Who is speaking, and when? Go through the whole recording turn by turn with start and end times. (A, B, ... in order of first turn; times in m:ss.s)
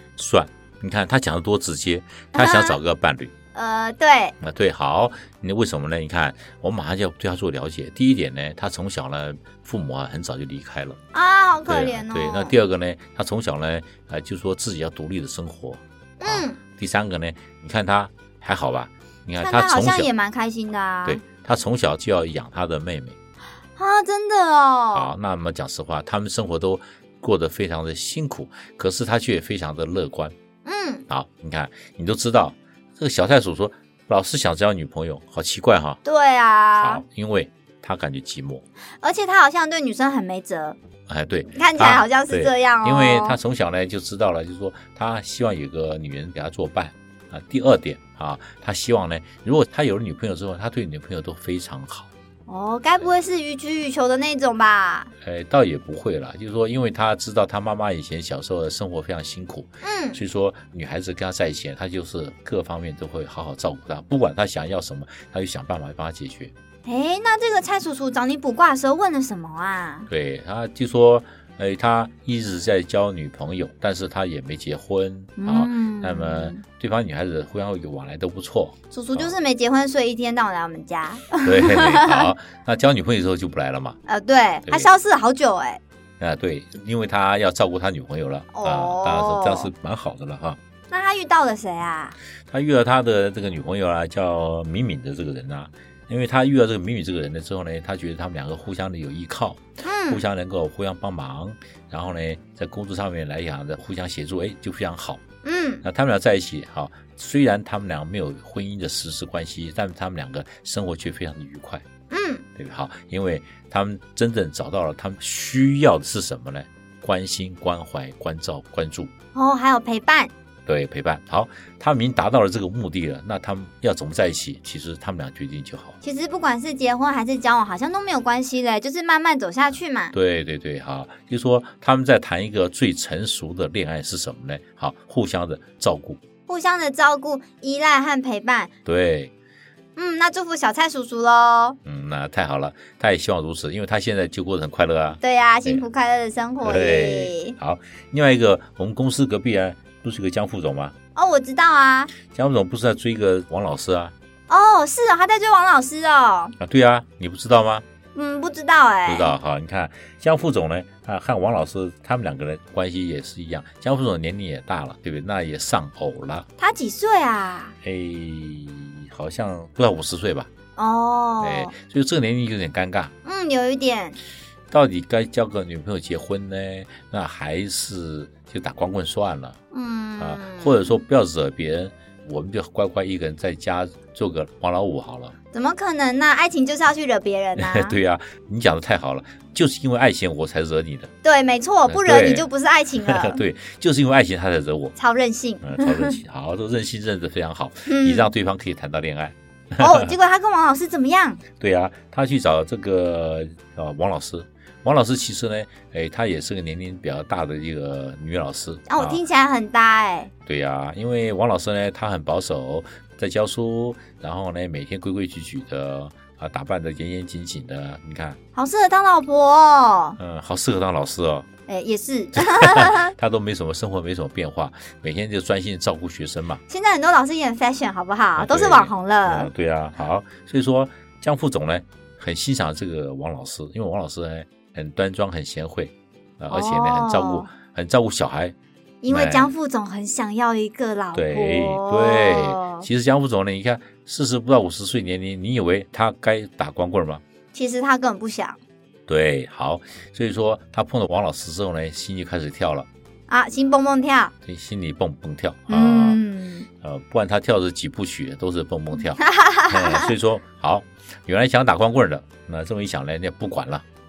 0:00.2-0:03.3 A
0:02.3-0:02.8 B
0:03.5-0:04.3 B
0:04.4-0:11.0 A
0:11.1-0:12.5 B
0:11.7-0:20.1 A
0:16.2-0:16.6 B
0:19.4-0:21.2 B
0:21.0-0:23.2 A
0:23.8-0:25.1 B
0:24.9-0:30.3 A
0:30.6-0:31.0 B
0:31.1-0:36.0 A
0:36.0-0:37.0 B
0:36.7-0:38.6 A
0:39.0-0:40.8 B
0:41.1-0:52.1 A
0:41.5-0:43.4 B
0:52.5-0:55.1 B
0:55.2-1:06.5 A
0:59.8-1:00.2 B
1:06.8-1:10.1 B
1:10.1-1:19.3 A
1:15.4-1:16.6 B
1:18.9-1:22.3 B
1:21.4-1:24.0 A
1:24.1-1:25.8 B
1:26.2-1:30.6 A
1:28.5-1:29.7 B
1:30.9-1:32.1 B
1:32.5-1:45.2 A
1:39.8-1:40.2 B
1:45.4-1:45.8 B
1:45.8-1:51.8 A
1:52.1-1:52.4 B
1:52.6-1:59.1 A
1:59.3-2:00.3 B
2:00.6-2:06.0 A
2:06.0-2:10.1 B
2:10.1-2:16.2 A
2:16.5-2:18.7 B
2:18.8-2:19.3 A
2:20.0-2:21.8 B
2:21.8-2:25.8 A
2:25.2-2:27.6 B
2:26.6-2:30.9 A
2:31.1-2:32.1 B
2:32.2-2:34.1 A
2:34.5-2:36.5 B
2:36.6-2:37.8 A
2:38.1-2:39.3 B
2:39.0-2:46.4 A
2:46.6-2:47.7 B
2:47.8-2:50.5 A
2:50.8-2:51.7 B
2:51.4-2:53.1 A
2:53.2-2:54.2 B
2:54.7-2:59.6 A
2:59.7-3:01.0 B
3:00.2-3:05.3 A
3:05.5-3:08.0 B
3:07.6-3:11.1 A
3:11.2-3:13.4 B
3:11.9-3:12.5 A
3:13.0-3:15.0 A
3:15.0-3:16.2 B
3:15.6-3:20.1 A
3:17.8-3:18.3 B
3:19.8-3:21.4 B
3:21.6-3:29.2 A
3:28.9-3:30.3 B
3:30.4-3:38.4 A
3:38.5-3:40.2 B
3:40.2-3:41.5 A
3:41.7-3:43.1 B
3:42.4-3:46.6 A
3:46.7-3:49.5 B
3:48.4-3:58.5 A
3:56.5-3:57.5 B
3:59.0-4:02.9 B
3:59.1-3:59.5 A
4:01.1-4:07.2 A
4:07.5-4:08.6 B
4:09.1-4:12.9 A
4:13.3-4:14.3 B
4:14.4-4:16.2 A
4:15.7-4:16.7 B
4:16.8-4:23.8 A
4:19.2-4:20.1 B